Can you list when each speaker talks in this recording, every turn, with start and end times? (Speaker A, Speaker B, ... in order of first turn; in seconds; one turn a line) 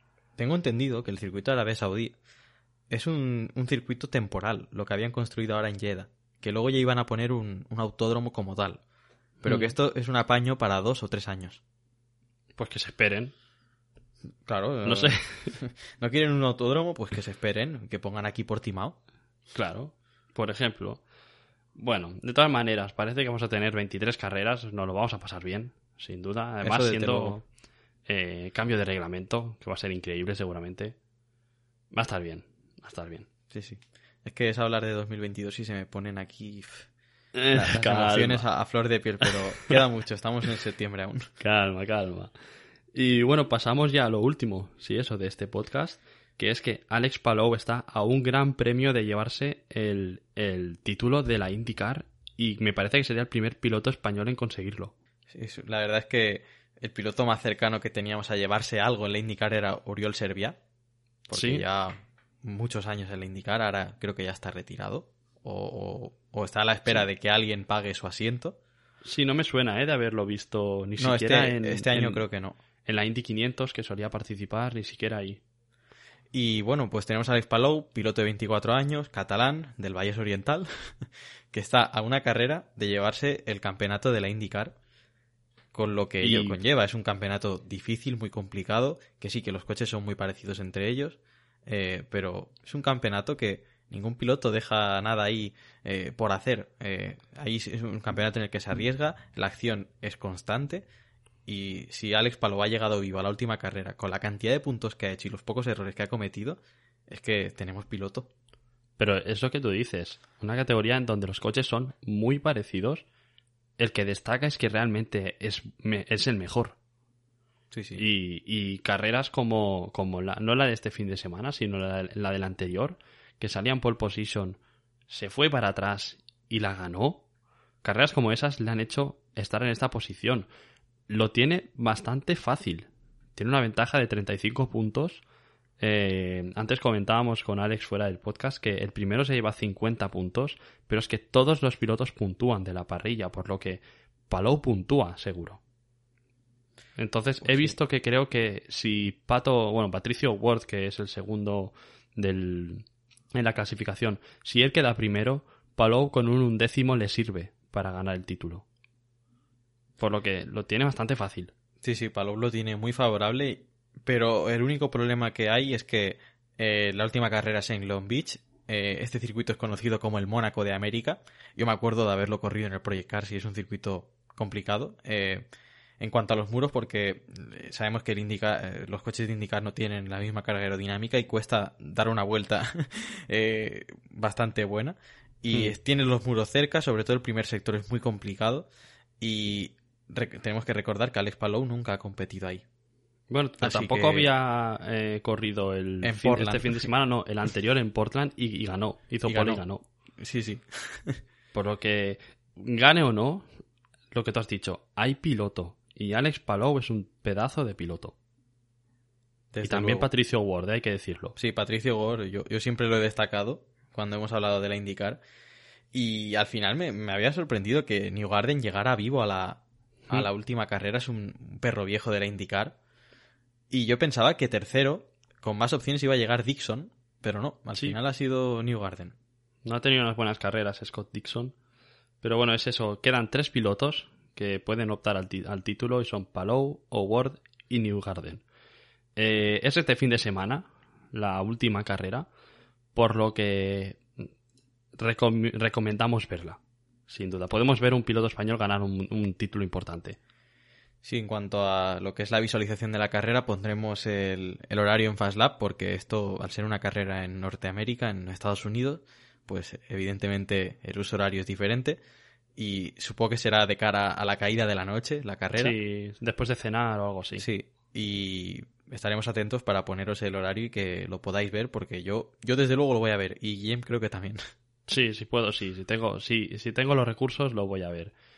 Speaker A: 0.4-2.1
Speaker A: 2.9-8.8
Speaker B: 9.4-9.7
Speaker A: 9.4-11.6
Speaker B: 12.6-13.3
Speaker A: 14.4-18.9
Speaker B: 14.8-15.6
Speaker B: 19.5-21.0
Speaker B: 21.7-27.4
Speaker A: 26.6-27.4
Speaker B: 28.1-30.9
Speaker B: 31.9-33.3
Speaker A: 33.5-36.9
Speaker B: 37.3-38.5
Speaker A: 37.5-41.3
Speaker B: 41.4-42.3
Speaker B: 42.9-54.9
Speaker A: 55.3-60.6
Speaker A: 61.3-68.5
Speaker B: 61.3-61.6
Speaker B: 69.0-72.2
Speaker A: 71.0-72.5
Speaker B: 72.8-75.4
Speaker A: 76.3-80.9
Speaker A: 81.5-84.7
Speaker A: 85.7-100.8
Speaker B: 86.2-86.6
Speaker A: 101.5-108.3
Speaker B: 109.0-113.0
Speaker B: 113.8-116.7
Speaker A: 117.7-118.0
Speaker B: 118.0-124.6
Speaker B: 125.1-127.2
Speaker B: 127.8-130.5
Speaker B: 131.1-135.2
Speaker B: 135.8-145.6
Speaker B: 146.9-158.6
Speaker A: 147.4-147.8
Speaker B: 160.0-161.5
Speaker A: 161.8-175.5
Speaker A: 176.0-188.7
Speaker B: 185.5-185.7
Speaker A: 189.2-192.6
Speaker B: 193.3-199.8
Speaker A: 193.6-194.3
Speaker A: 196.0-196.9
Speaker A: 199.3-199.6
Speaker A: 200.2-201.2
Speaker B: 201.5-203.5
Speaker B: 204.1-208.1
Speaker A: 209.5-210.1
Speaker B: 209.6-211.3
Speaker A: 211.4-215.2
Speaker A: 215.9-222.7
Speaker A: 223.7-229.1
Speaker B: 229.6-231.5
Speaker B: 232.2-238.4
Speaker B: 239.2-242.3
Speaker B: 242.9-244.1
Speaker B: 244.9-250.2
Speaker A: 251.0-262.0
Speaker A: 262.6-265.7
Speaker B: 265.5-267.4
Speaker A: 267.4-274.4
Speaker B: 274.9-278.1